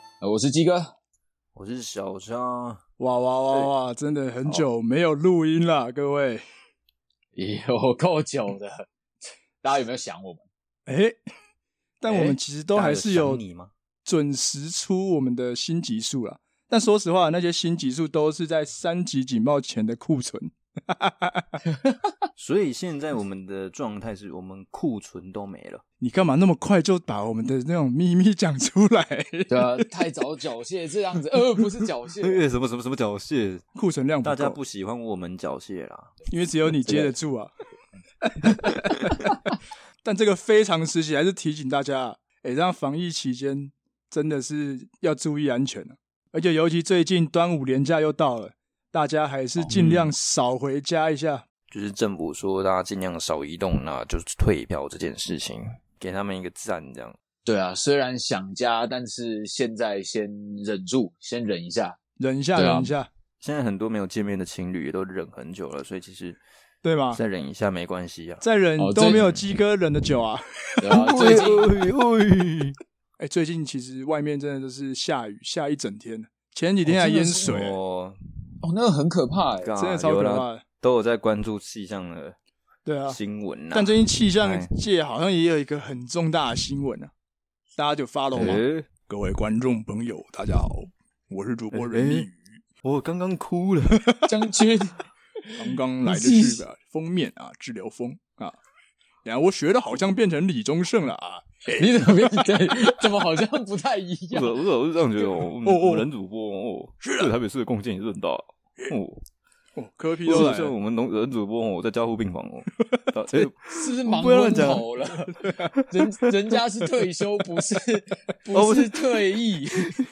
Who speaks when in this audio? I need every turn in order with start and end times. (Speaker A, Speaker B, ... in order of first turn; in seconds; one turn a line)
Speaker A: 0.2-0.9
Speaker B: 1.5-2.8
Speaker C: 3.0-6.4
Speaker A: 7.3-8.9
Speaker A: 9.6-10.4
Speaker C: 10.9-11.2
Speaker C: 12.0-13.4
Speaker B: 12.1-13.7
Speaker C: 14.0-21.6
Speaker A: 21.7-22.1
Speaker B: 22.4-25.8
Speaker C: 26.0-29.9
Speaker A: 29.5-32.4
Speaker B: 32.2-33.6
Speaker C: 33.7-34.6
Speaker B: 34.2-36.1
Speaker C: 36.3-37.5
Speaker A: 36.8-37.1
Speaker C: 38.2-39.2
Speaker C: 40.0-51.4
Speaker B: 49.7-50.1
Speaker B: 51.7-57.1
Speaker A: 57.5-62.0
Speaker C: 62.2-63.1
Speaker A: 62.5-62.9
Speaker B: 63.4-66.4
Speaker C: 66.8-67.2
Speaker B: 67.1-68.4
Speaker C: 68.4-71.4
Speaker A: 68.8-69.2
Speaker B: 69.0-69.5
Speaker A: 70.8-71.7
Speaker B: 70.9-72.8
Speaker C: 73.2-77.8
Speaker A: 76.8-77.6
Speaker B: 77.4-78.2
Speaker A: 78.6-79.7
Speaker B: 79.6-82.3
Speaker C: 79.8-80.6
Speaker C: 82.8-83.2
Speaker B: 83.1-84.7
Speaker C: 83.7-87.1
Speaker C: 87.8-92.5
Speaker B: 88.3-88.9
Speaker B: 91.7-92.3
Speaker B: 92.8-94.1
Speaker C: 93.9-94.2
Speaker A: 94.2-96.6
Speaker C: 95.6-98.6
Speaker C: 99.2-101.4
Speaker A: 101.7-104.6
Speaker B: 104.3-109.2
Speaker C: 105.6-106.1
Speaker C: 107.0-107.3
Speaker C: 109.7-110.7
Speaker B: 110.2-114.8
Speaker A: 113.7-120.0
Speaker C: 115.3-115.7
Speaker B: 118.5-119.5